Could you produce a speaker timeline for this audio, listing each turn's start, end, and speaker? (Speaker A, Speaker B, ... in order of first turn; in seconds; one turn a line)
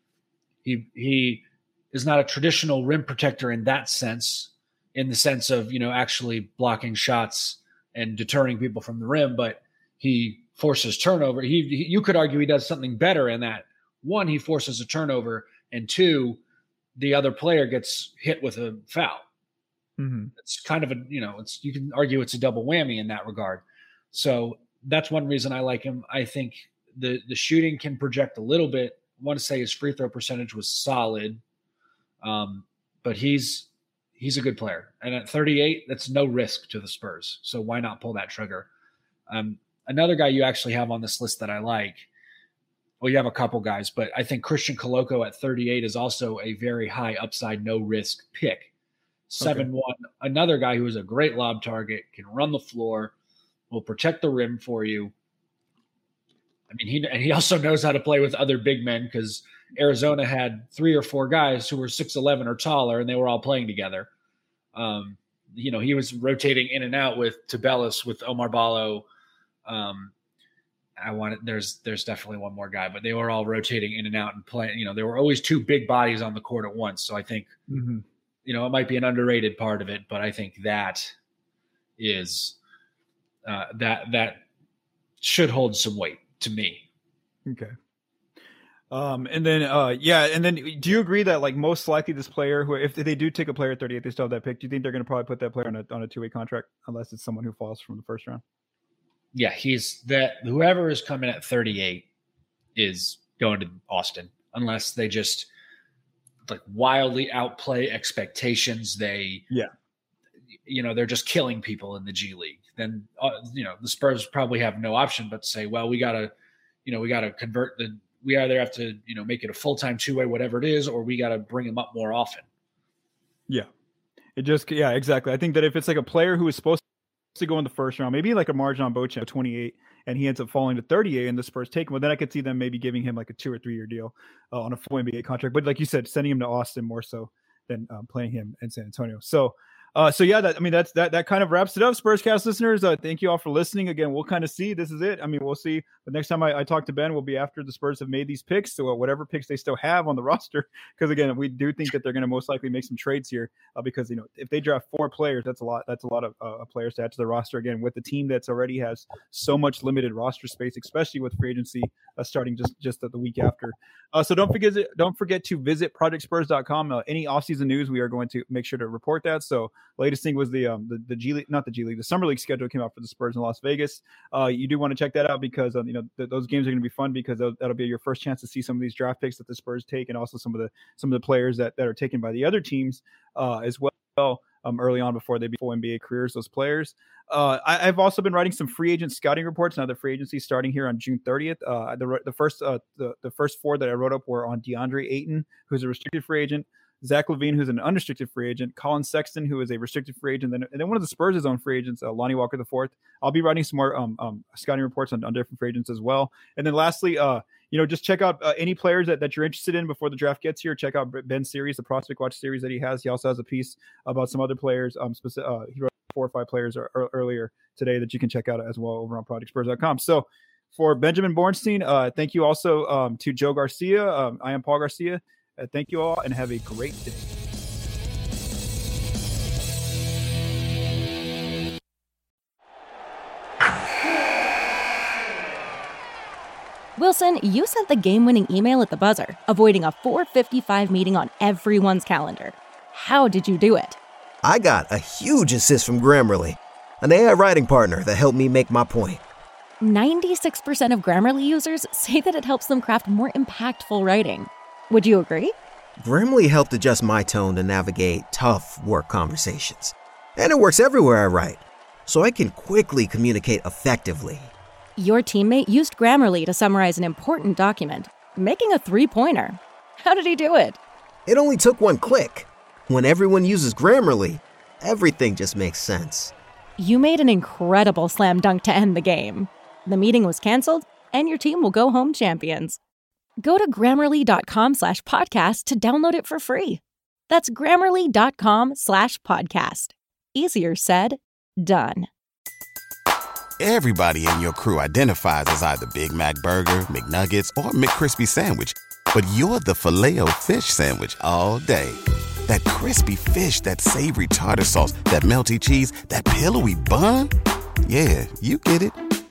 Speaker A: 0.6-16.4
Speaker A: 16.9-19.2
Speaker B: 20.0-20.3
Speaker A: 20.4-31.4
Speaker A: 32.2-38.7
Speaker A: 39.3-42.1
Speaker A: 43.0-48.7
Speaker A: 49.3-53.1
Speaker B: 49.4-49.7
Speaker A: 53.7-55.1
Speaker A: 56.7-64.1
Speaker A: 64.7-69.0
Speaker A: 69.7-70.1
Speaker A: 71.0-77.5
Speaker B: 77.7-78.0
Speaker A: 78.4-81.1
Speaker A: 82.0-82.5
Speaker A: 83.4-84.4
Speaker A: 85.2-86.8
Speaker B: 87.5-87.7
Speaker B: 88.9-98.4
Speaker A: 99.3-102.1
Speaker A: 102.7-105.5
Speaker A: 106.5-109.5
Speaker A: 110.7-116.3
Speaker A: 116.8-122.4
Speaker B: 124.3-126.8
Speaker B: 127.3-227.3
Speaker C: 237.0-244.0
Speaker D: 244.4-249.2
Speaker C: 249.8-255.5
Speaker D: 256.0-264.5
Speaker C: 265.0-270.8
Speaker D: 271.3-276.3
Speaker C: 276.8-282.8
Speaker C: 283.4-292.1
Speaker E: 293.6-307.3
Speaker E: 307.8-309.0